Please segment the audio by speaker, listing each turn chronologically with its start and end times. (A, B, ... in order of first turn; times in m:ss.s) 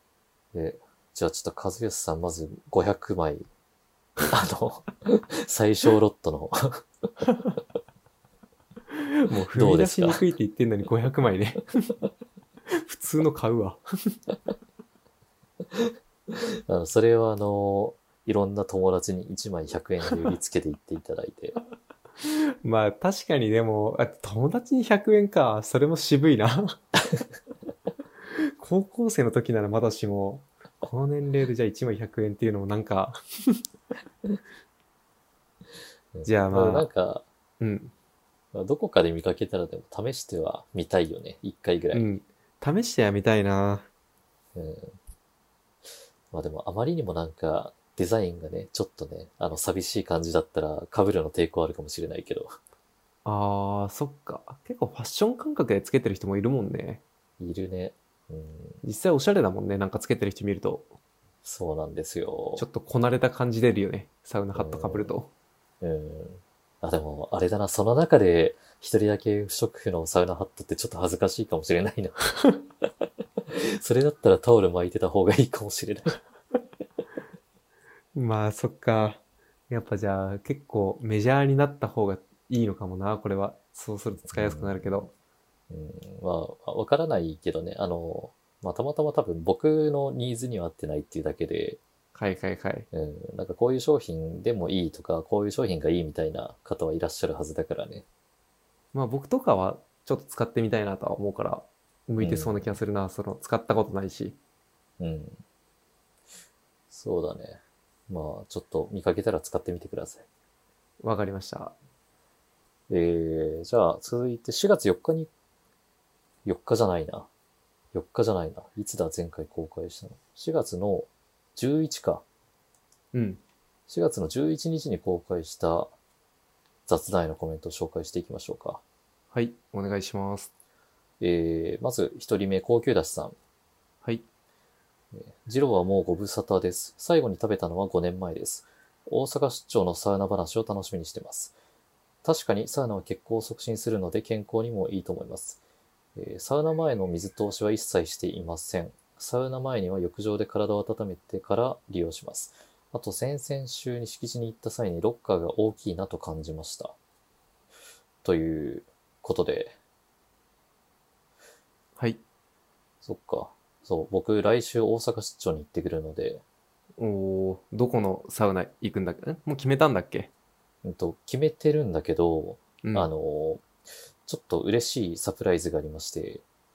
0:00.5-0:03.5 A
0:04.3-0:06.8 A
0:08.9-0:12.0 B
0:09.5-0:10.2 A
0:12.7-0:14.2 B
0:15.7-0:21.6 A
0:22.2-0:26.8 B
0:28.3-0:33.6 B
0:36.1-0:37.2 A
0:36.2-0:36.9 B
0:37.6-0:37.9 B
0:38.5-0:42.1 A
0:41.9-0:43.9 B
0:44.6-0:45.0 A
0:46.3-0:52.5 A
0:53.2-0:57.0 B
0:57.4-0:58.8 A
0:58.8-1:00.9 B
1:01.4-1:02.7 A
1:02.6-1:05.3 B
1:04.5-1:05.2 A
1:05.8-1:12.2 A
1:13.5-1:16.2 A
1:18.2-1:25.1 B
1:24.3-1:25.0 A
1:25.7-1:31.8 A
1:32.1-1:32.9 B
1:32.9-1:38.0 A
1:38.9-1:44.4 B
1:42.2-1:42.8 A
1:45.0-1:45.4 A
1:46.9-1:50.3 A
1:51.0-1:51.8 B
1:52.9-1:55.3 A
1:56.4-1:57.3 A
1:57.9-2:02.2 A
2:03.1-2:03.4 B
2:03.9-2:05.9 A
2:06.9-2:08.8 A
2:09.3-2:10.5 B
2:11.2-2:13.4 A
2:15.1-2:21.6 A
2:22.2-2:25.6 A
2:26.2-2:37.0 A
2:38.2-2:39.8 A
2:43.0-2:46.4 A
2:47.0-2:50.3 B
2:50.8-2:53.7 A
2:52.8-2:53.1 B
2:54.3-2:56.4 A